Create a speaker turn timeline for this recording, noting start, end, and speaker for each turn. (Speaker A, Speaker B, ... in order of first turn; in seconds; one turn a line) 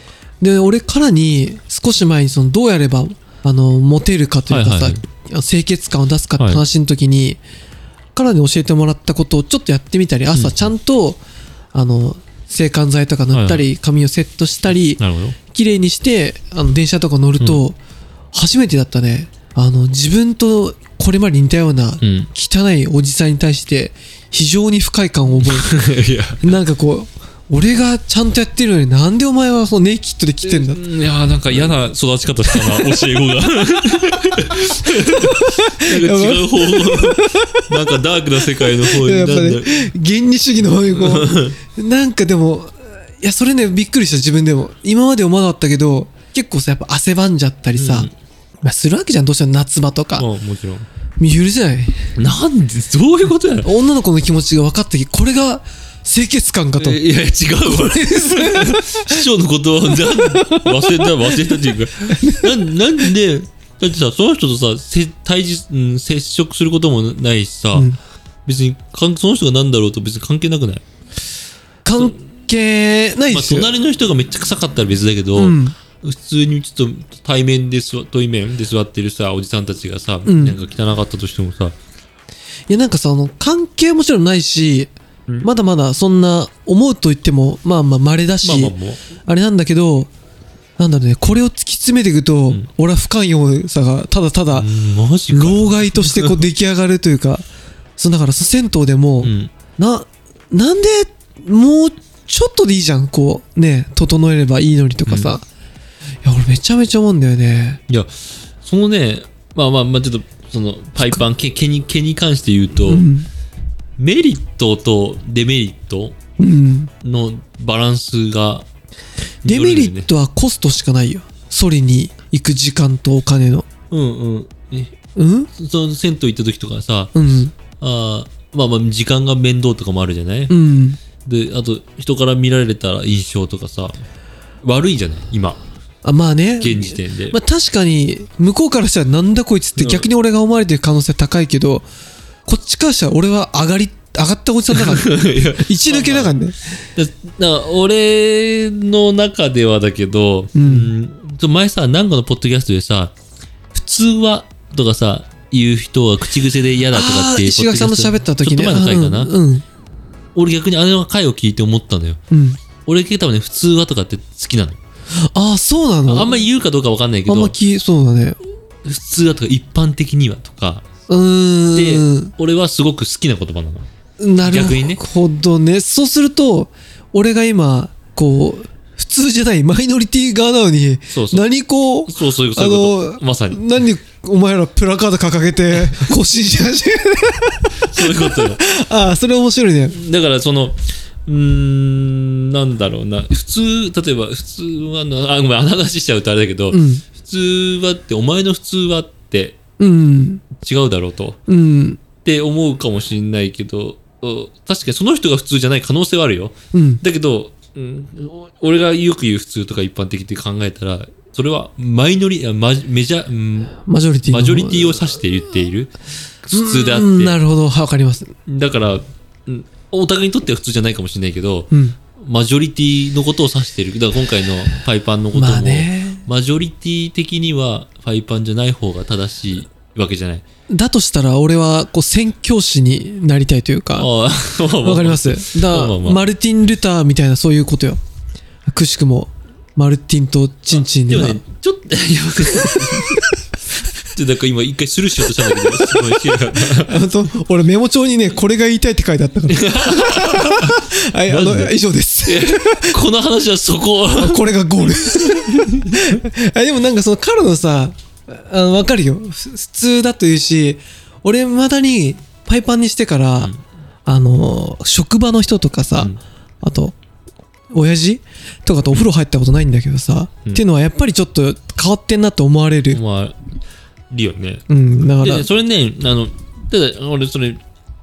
Speaker A: 0.4-7.4
Speaker B: 4.5-5.0
Speaker A: 8.1-11.2
Speaker B: 10.3-10.7
Speaker A: 11.7-15.0
Speaker B: 13.3-13.7
Speaker B: 14.8-15.4
Speaker A: 15.5-17.8
Speaker A: 18.3-25.8
Speaker B: 22.0-22.3
Speaker B: 25.4-26.6
Speaker A: 26.4-30.8
Speaker B: 30.4-39.9
Speaker A: 31.5-31.8
Speaker A: 34.5-37.6
Speaker A: 38.4-48.1
Speaker B: 40.9-41.6
Speaker B: 47.8-48.1
Speaker A: 48.6-50.3
Speaker B: 50.1-50.9
Speaker A: 51.2-52.1
Speaker B: 52.2-53.7
Speaker A: 53.6-57.0
Speaker B: 56.8-67.9
Speaker A: 57.6-59.2
Speaker A: 59.9-62.7
Speaker B: 68.5-70.8
Speaker A: 71.8-73.7
Speaker B: 73.3-81.8
Speaker A: 75.3-75.7
Speaker A: 80.2-80.6
Speaker A: 82.7-84.9
Speaker A: 85.4-90.1
Speaker B: 88.4-89.0
Speaker A: 90.8-94.7
Speaker B: 94.5-96.4
Speaker A: 95.3-97.4
Speaker A: 98.0-105.4
Speaker B: 99.2-99.5
Speaker B: 105.1-105.3
Speaker A: 106.2-107.8
Speaker B: 107.9-113.1
Speaker A: 112.8-113.3
Speaker B: 114.0-116.2
Speaker A: 116.4-116.9
Speaker B: 117.0-118.7
Speaker B: 119.4-120.1
Speaker A: 119.4-123.7
Speaker B: 123.9-124.9
Speaker A: 125.2-125.5
Speaker B: 125.5-130.6
Speaker A: 127.1-127.5
Speaker A: 130.5-131.0
Speaker B: 131.2-134.0
Speaker B: 134.6-135.6
Speaker A: 136.0-141.8
Speaker B: 136.6-137.4
Speaker B: 139.8-140.1
Speaker A: 142.4-146.6
Speaker B: 144.7-146.3
Speaker B: 146.9-153.1
Speaker A: 150.5-150.9
Speaker B: 153.7-159.3
Speaker A: 156.9-159.6
Speaker B: 160.3-162.2
Speaker A: 162.3-162.6
Speaker B: 162.8-164.8
Speaker A: 165.3-166.5
Speaker B: 166.1-167.5
Speaker A: 167.3-168.4
Speaker B: 168.8-170.8
Speaker A: 171.1-172.3
Speaker B: 171.7-173.9
Speaker A: 174.2-189.9
Speaker B: 174.4-175.0
Speaker B: 181.1-181.5
Speaker B: 182.1-183.8
Speaker B: 187.8-188.6
Speaker B: 189.9-199.6
Speaker A: 196.7-197.0
Speaker A: 199.8-200.4
Speaker B: 200.6-201.4
Speaker A: 201.5-202.0
Speaker B: 202.2-215.9
Speaker A: 206.7-207.0
Speaker A: 213.8-215.0
Speaker B: 216.4-217.4
Speaker A: 216.5-218.3
Speaker B: 218.4-230.4
Speaker A: 221.7-221.9
Speaker A: 225.3-226.2
Speaker A: 230.7-234.1
Speaker B: 234.0-236.2
Speaker A: 234.8-238.0
Speaker A: 238.7-241.4
Speaker B: 240.7-243.2
Speaker B: 244.0-247.1
Speaker A: 246.8-253.0
Speaker B: 249.5-254.5
Speaker A: 254.1-263.5
Speaker B: 255.5-255.9
Speaker A: 264.1-266.9
Speaker A: 267.7-273.0
Speaker B: 272.9-273.4
Speaker B: 274.1-274.6
Speaker A: 274.7-275.5
Speaker B: 275.2-277.6